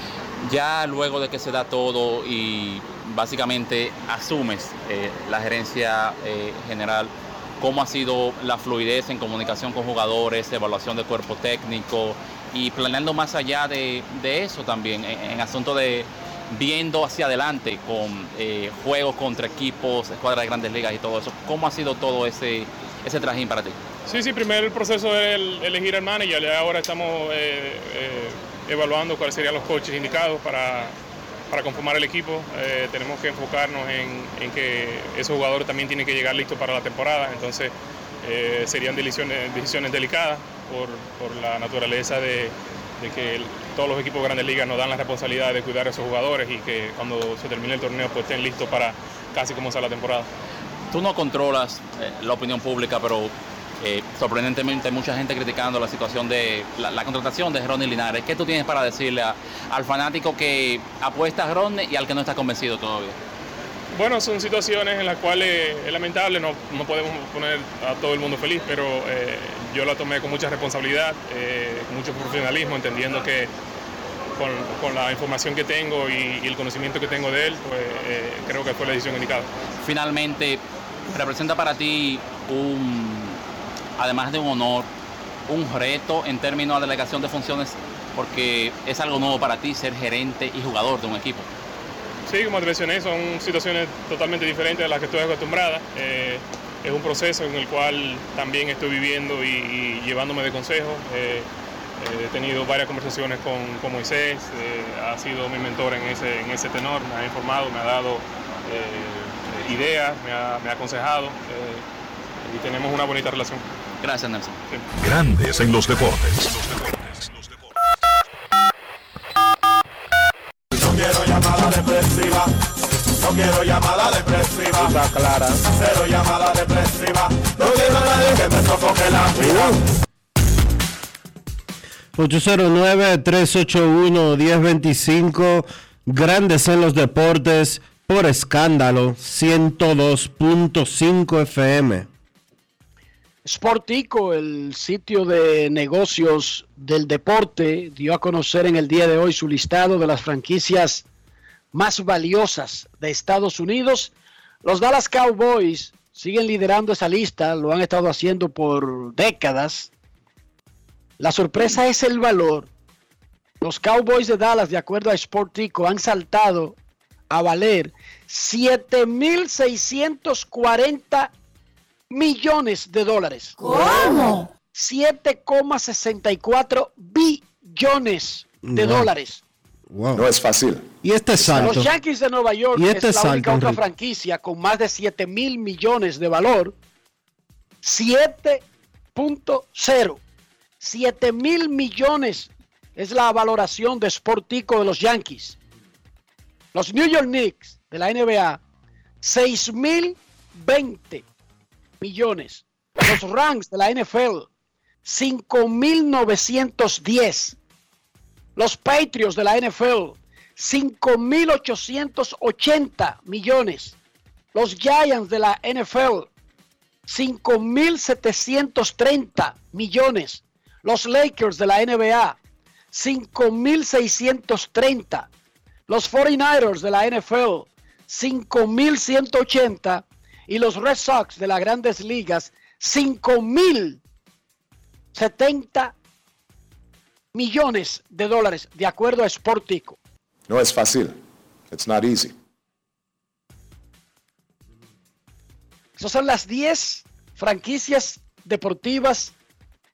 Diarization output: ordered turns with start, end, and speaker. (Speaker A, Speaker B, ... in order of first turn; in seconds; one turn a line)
Speaker A: 0.4-23.8
Speaker B: 24.1-30.9
Speaker B: 31.5-50.3
Speaker A: 50.9-63.2
Speaker B: 63.9-73.5
Speaker B: 74.4-79.5
Speaker A: 79.8-83.4
Speaker A: 84.0-84.9
Speaker A: 85.5-91.5
Speaker B: 92.3-101.5
Speaker B: 102.0-111.8
Speaker B: 112.4-113.6
Speaker A: 114.0-114.6
Speaker C: 115.0-117.2
Speaker D: 120.7-122.5
Speaker D: 123.2-125.0
Speaker D: 125.7-129.8
Speaker E: 132.2-142.1
Speaker F: 143.4-151.0
Speaker F: 151.7-154.1
Speaker F: 154.6-159.9
Speaker F: 161.2-162.7
Speaker F: 163.6-166.8
Speaker F: 167.3-171.3
Speaker F: 172.1-174.2
Speaker F: 174.7-179.4
Speaker E: 178.6-179.1
Speaker E: 179.9-180.3
Speaker G: 180.1-180.8
Speaker E: 181.0-181.9
Speaker G: 181.4-181.8
Speaker F: 181.6-186.7
Speaker E: 182.7-183.8
Speaker F: 187.8-190.2
Speaker F: 190.8-195.6
Speaker F: 196.7-198.6
Speaker F: 199.2-201.2
Speaker F: 202.0-204.5
Speaker F: 205.0-207.6
Speaker F: 208.6-213.9
Speaker F: 214.5-216.3
Speaker F: 217.1-222.4
Speaker F: 222.9-225.3
Speaker F: 225.9-234.0
Speaker F: 235.1-235.9
Speaker F: 237.3-240.0
Speaker G: 240.5-241.2
Speaker G: 241.7-242.3
Speaker F: 246.0-249.3